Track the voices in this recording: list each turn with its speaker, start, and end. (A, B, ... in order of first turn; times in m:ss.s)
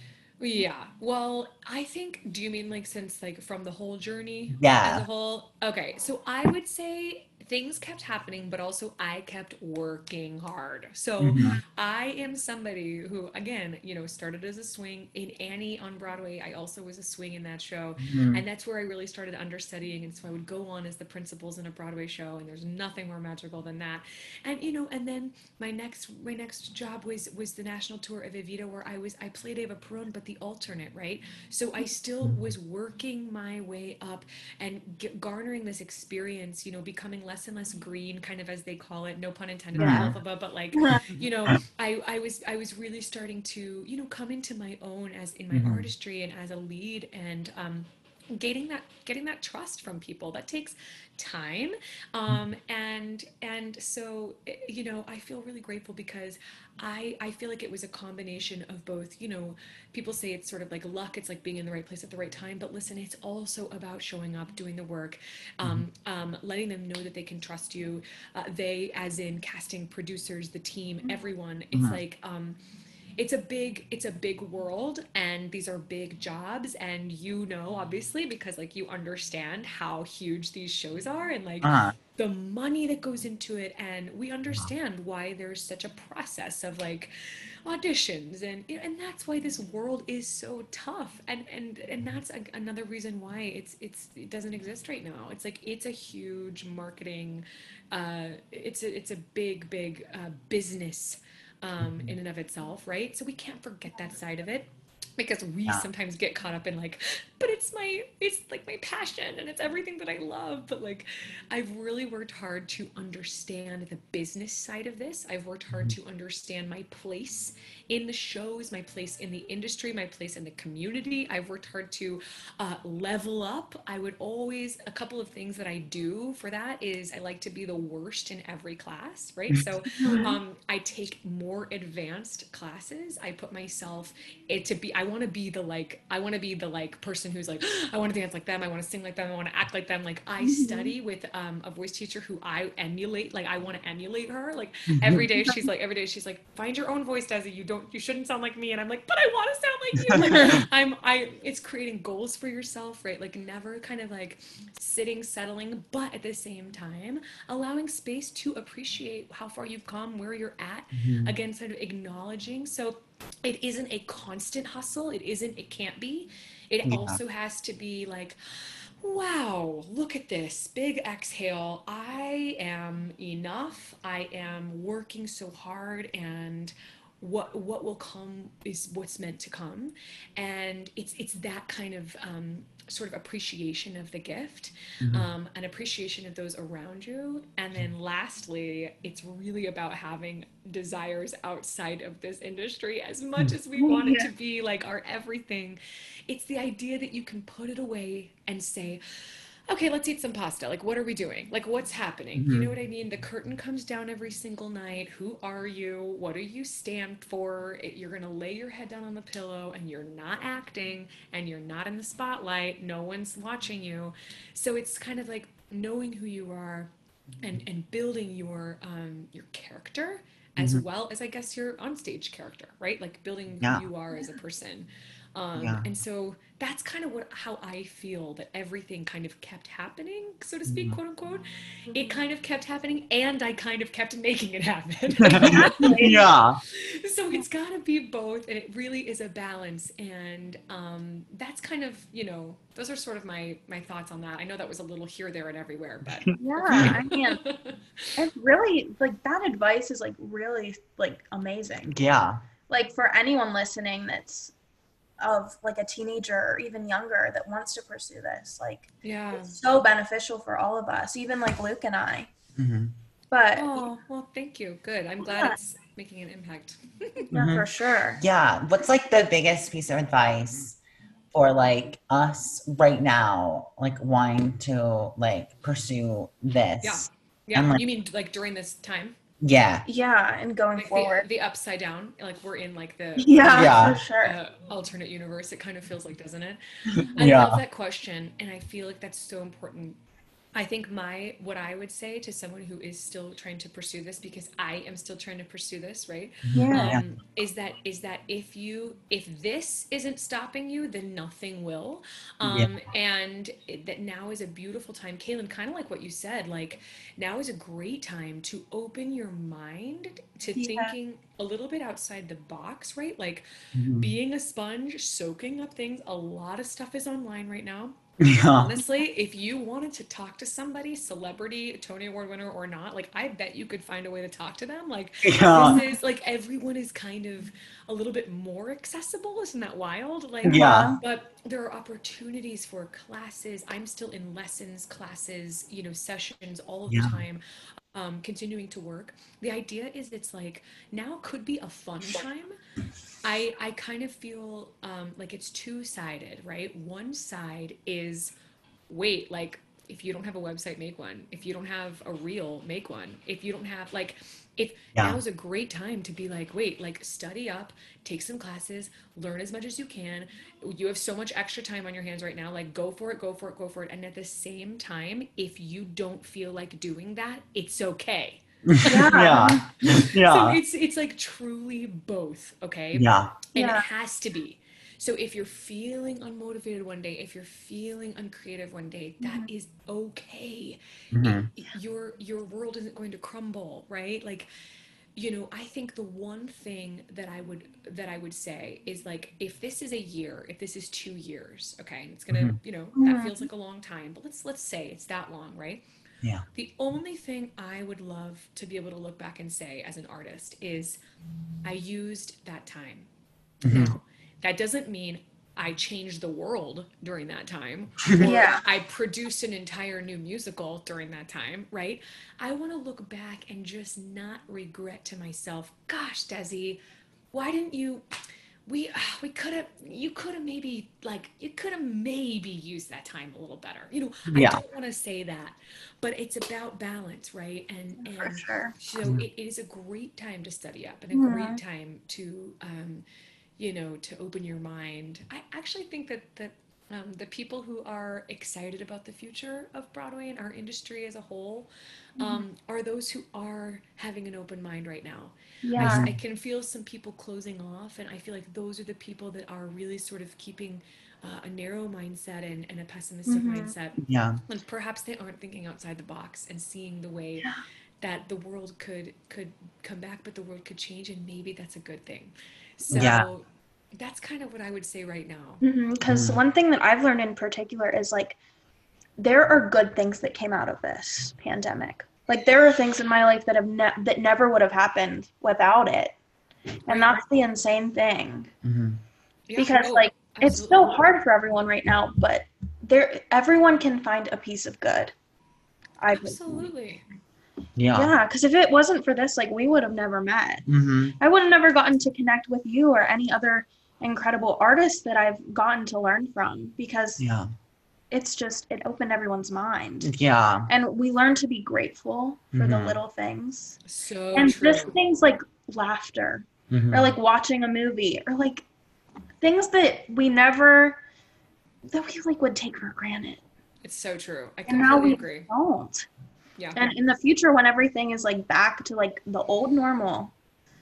0:00.4-1:12.6 A
0:04.6-0:05.1 B
0:11.2-0:11.6 B
0:18.0-0:18.4 B
0:32.2-0:32.5 B
0:39.8-0:40.2 B
0:39.8-0:40.1 C
0:40.7-0:41.0 C
0:45.5-0:45.9 B
1:11.7-1:12.0 B
1:13.2-1:27.1 A
1:21.6-1:22.0 B
1:27.6-3:19.0 A
1:41.8-1:42.1 B
2:10.0-2:10.3 C
2:20.4-2:21.0 C
2:24.9-2:25.2 B
2:30.0-2:30.4 B
2:40.9-2:41.4 B
2:46.8-2:47.2 B
3:05.0-3:05.3 B
3:13.8-3:14.3 C
3:19.7-3:36.9 A
3:22.4-3:22.7 B
3:37.4-3:56.1 A
3:40.6-3:40.8 B
3:45.6-3:45.8 B
3:50.7-3:51.0 B
3:55.2-3:56.6 B
3:55.4-3:56.2 C
3:56.7-4:08.2 A
4:06.0-4:07.0 B
4:06.4-4:07.4 C
4:08.2-4:11.9 C
4:11.9-4:12.4 B
4:12.7-4:14.5 C
4:15.2-4:22.3 C
4:19.0-4:19.6 A
4:22.6-4:22.9 B
4:23.3-4:24.0 C
4:23.6-4:27.3 A
4:25.3-4:25.6 C
4:27.3-4:28.2 C
4:27.3-4:27.7 B
4:28.2-4:30.8 B
4:31.3-4:37.8 B
4:36.8-4:39.2 A
4:39.4-4:39.8 B
4:39.9-4:41.3 C
4:40.8-4:46.6 A
4:43.2-4:44.4 C
4:43.5-4:44.0 B
4:47.2-4:50.0 A
4:47.2-4:47.6 B
4:50.6-5:13.4 A
4:56.5-4:57.0 B
4:56.5-4:57.0 C
5:02.4-5:02.7 B
5:10.6-5:10.9 C
5:13.8-5:14.1 B
5:14.0-5:18.0 A
5:18.2-5:18.7 B
5:18.5-5:37.4 A
5:25.2-5:25.8 B
5:25.5-5:26.0 C
5:30.4-5:30.9 B
5:30.4-5:31.0 C
5:36.9-5:37.2 B
5:37.9-5:42.6 A
5:43.2-5:48.3 A
5:48.9-6:24.5 A
5:55.0-5:55.2 B
6:08.7-6:10.6 B
6:08.8-6:09.6 C
6:12.9-6:13.4 B
6:13.6-6:13.9 C
6:19.2-6:19.5 C
6:21.1-6:21.5 B
6:25.2-6:35.8 A
6:32.3-6:32.6 B
6:33.0-6:33.4 C
6:36.5-6:41.0 A
6:41.6-6:43.1 A
6:43.6-6:43.9 B
6:43.7-6:56.8 A
6:48.2-6:48.6 C
6:57.3-6:58.0 A
6:58.7-7:13.0 A
7:04.3-7:04.6 B
7:08.0-7:08.8 C
7:11.1-7:11.6 C
7:13.6-7:37.5 A
7:22.2-7:22.4 C
7:25.6-7:26.1 C
7:25.8-7:26.2 B
7:33.3-7:33.7 C
7:34.0-7:34.4 B
7:38.0-7:43.5 A
7:42.9-7:43.3 B
7:44.0-7:45.6 A
7:45.6-7:48.4 C
7:46.1-7:46.4 B
7:49.2-7:56.2 C
7:56.9-7:58.5 C
7:56.9-7:57.2 A
7:58.6-7:59.0 B
7:59.5-8:01.0 A
7:59.6-8:05.1 C
8:06.0-8:06.7 C
8:06.1-8:07.0 A
8:07.8-8:08.1 B
8:07.9-8:10.7 C
8:10.7-8:11.2 B
8:11.2-8:17.2 C
8:17.2-8:17.5 B
8:18.1-8:20.1 C
8:20.0-8:20.7 B
8:20.7-8:23.8 C
8:22.5-8:23.0 B
8:23.9-8:25.0 A
8:24.3-8:28.6 C
8:26.7-8:27.2 B
8:29.4-8:31.0 C
8:31.9-8:33.4 C
8:33.8-8:35.5 A
8:34.7-8:36.1 C
8:36.6-8:36.9 A
8:36.8-8:40.3 C